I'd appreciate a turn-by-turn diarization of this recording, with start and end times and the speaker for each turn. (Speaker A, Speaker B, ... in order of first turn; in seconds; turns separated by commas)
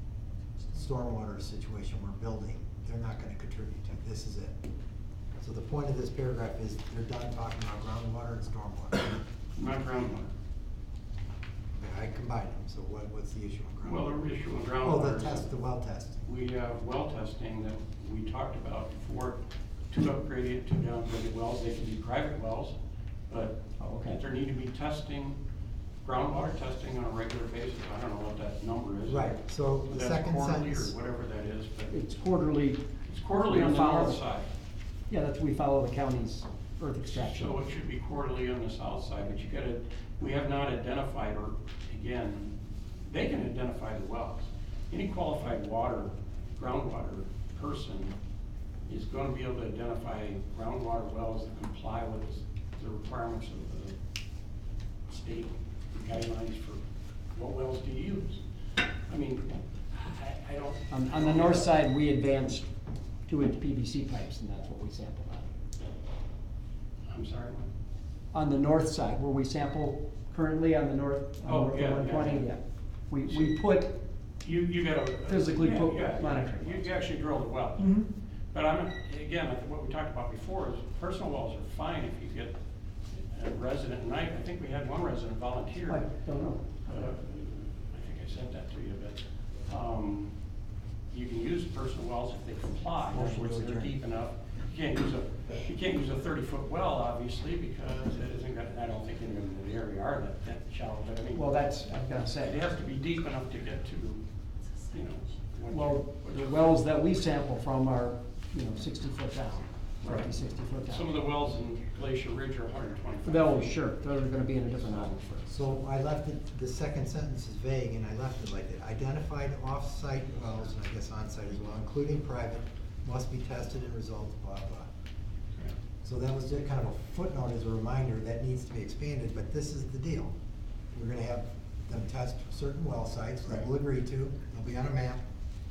Speaker A: 0.7-4.6, Speaker A: 5.4-9.2, Speaker B: 9.6-10.3, Speaker A: 11.8-14.1, Speaker B: 13.8-15.5, Speaker A: 14.8-16.2, Speaker B: 16.2-22.8, Speaker B: 23.3-25.4, Speaker C: 23.8-24.2, Speaker B: 26.0-32.0, Speaker A: 29.1-30.9, Speaker C: 31.9-32.8, Speaker B: 33.1-34.5, Speaker C: 33.4-34.2, Speaker C: 35.1-37.6, Speaker B: 37.1-48.2, Speaker B: 48.9-54.0, Speaker B: 55.1-56.8, Speaker B: 57.3-58.4, Speaker B: 59.1-61.8, Speaker C: 60.9-62.7, Speaker C: 63.3-65.5, Speaker B: 67.1-67.7, Speaker C: 68.3-74.0, Speaker B: 71.4-72.5, Speaker B: 74.4-78.0, Speaker C: 75.3-76.9, Speaker C: 77.8-78.1, Speaker B: 78.5-82.6, Speaker B: 83.1-86.1, Speaker C: 85.8-87.0, Speaker B: 86.8-90.3, Speaker B: 91.1-101.5, Speaker A: 93.1-94.0, Speaker C: 101.3-102.6, Speaker B: 102.4-104.3, Speaker B: 104.9-107.3, Speaker C: 105.7-111.1, Speaker B: 110.0-110.3, Speaker B: 110.8-113.7, Speaker C: 113.2-115.6, Speaker B: 114.7-115.2, Speaker A: 115.5-124.9, Speaker A: 126.0-130.3, Speaker A: 130.9-135.2